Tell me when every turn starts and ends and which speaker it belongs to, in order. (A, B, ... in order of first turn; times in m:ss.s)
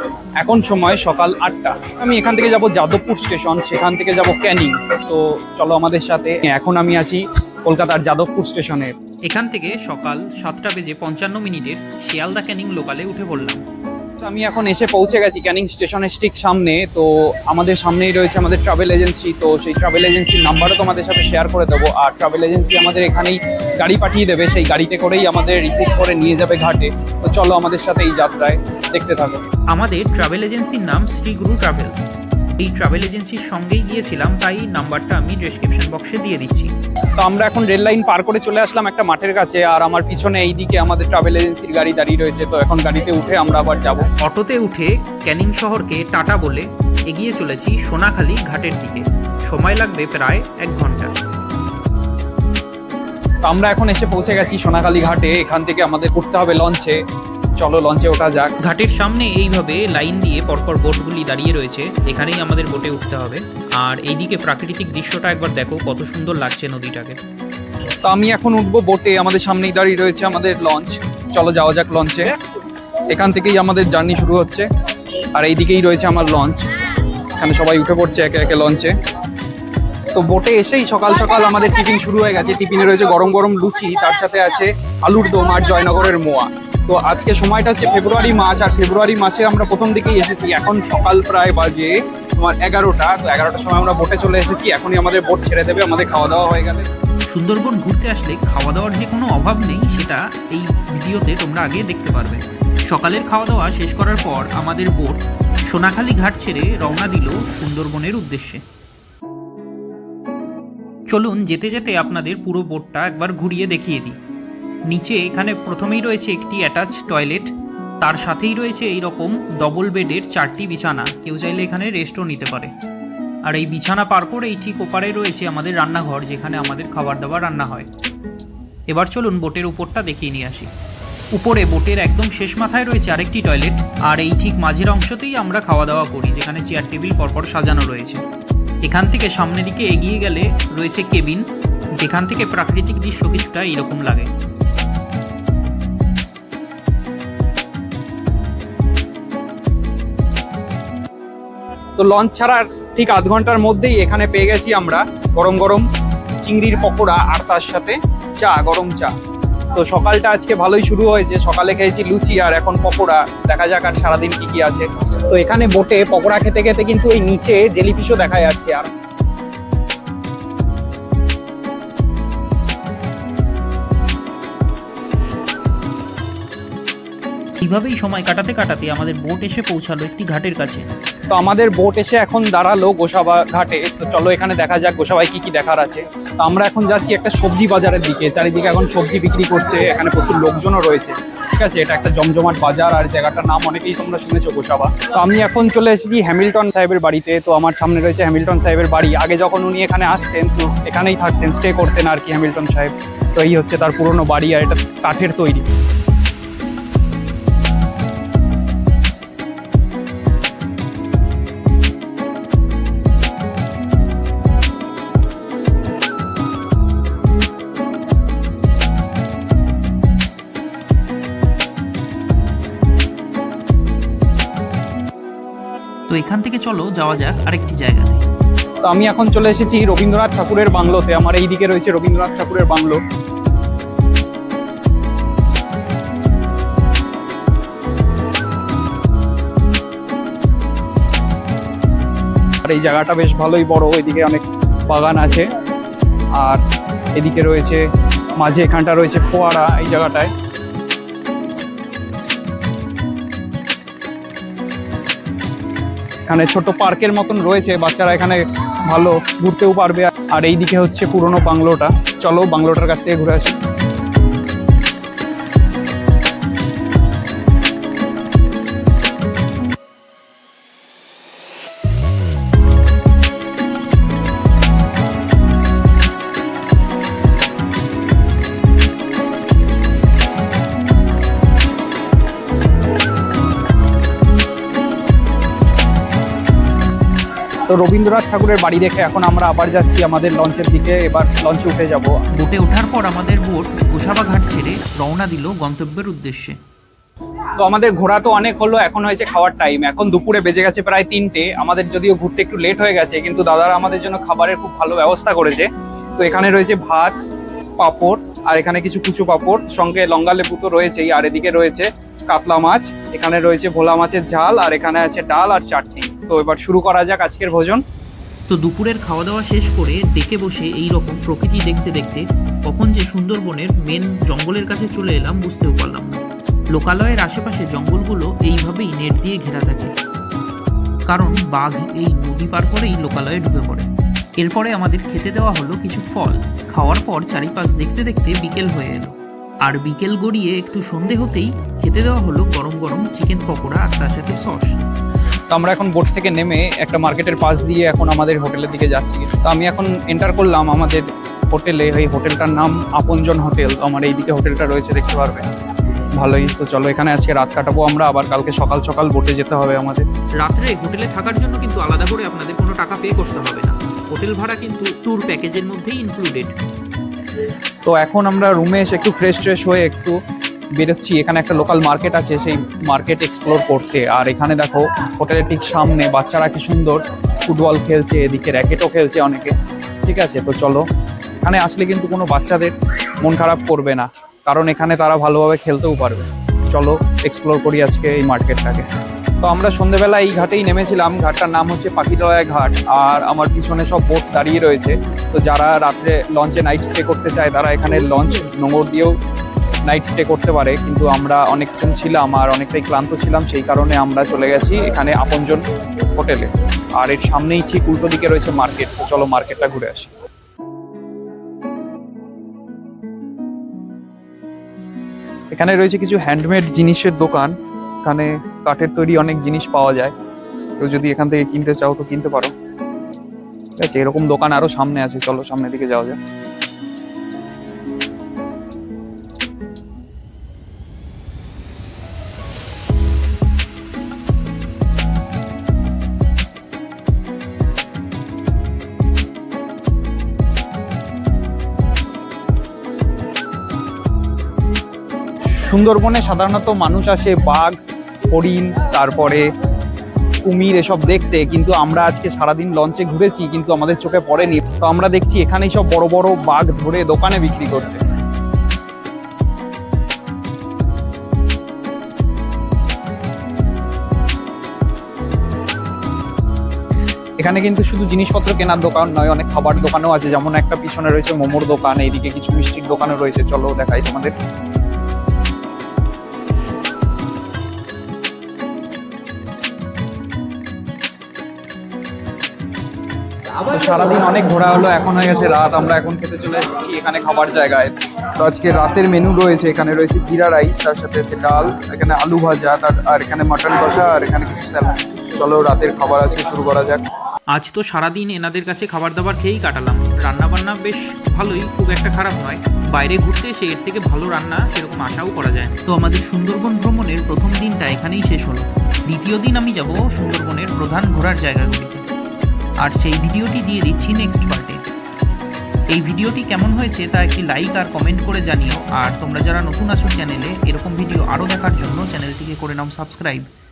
0:00.4-0:08.9 A
0:09.3-0:13.6 B
0:14.2-0:29.4 A
0:29.7-0:32.1 B
0:32.6-0:36.7 B
0:37.2-0:44.1 A
0:44.2-0:51.1 B
0:53.4-0:57.0 A
0:57.6-0:58.5 A
0:58.6-1:07.2 B
1:08.0-1:12.3 A
1:13.1-1:14.7 A
1:15.3-1:16.6 A
1:17.4-1:18.9 A
1:20.1-1:36.8 A
1:37.3-1:48.6 B
1:51.1-1:54.2 B
1:54.9-2:02.7 B
2:03.4-2:07.9 B
2:08.9-2:10.7 B
2:11.3-2:18.2 B
2:18.8-2:21.5 B
2:22.0-2:24.3 B
2:32.0-2:35.8 A
2:36.4-2:39.1 A
2:39.7-2:48.9 A
2:57.6-3:00.9 B
3:01.3-3:25.6 A
3:46.1-3:48.2 B
3:48.8-3:53.0 A
4:02.6-4:05.5 A
4:07.2-4:07.8 A
4:08.4-4:10.3 A
4:16.3-4:23.6 A
4:47.7-4:52.1 A
4:52.4-4:56.6 B
4:57.6-5:07.2 A
5:07.8-5:17.8 A
5:18.5-5:26.2 B
5:26.7-5:29.9 B
5:31.1-5:33.9 B
5:34.4-5:44.8 B
5:45.5-5:55.4 A
5:56.2-6:00.0 A
6:00.4-6:06.6 B
6:07.9-6:10.2 A
6:10.8-6:19.5 A
6:20.1-6:20.8 A
6:21.4-6:28.8 A
6:29.4-6:39.1 A
6:39.9-6:45.6 A
6:46.2-6:50.1 A
6:55.5-6:57.5 A
6:58.0-7:00.1 A
7:00.8-7:02.5 A
7:03.8-7:06.2 A
7:25.6-7:27.8 A
7:28.3-7:29.5 A
7:30.4-7:38.0 A
7:47.4-7:54.3 A
8:03.6-8:17.0 A
8:17.5-8:32.0 B
8:32.8-8:34.8 B
8:35.9-8:43.5 B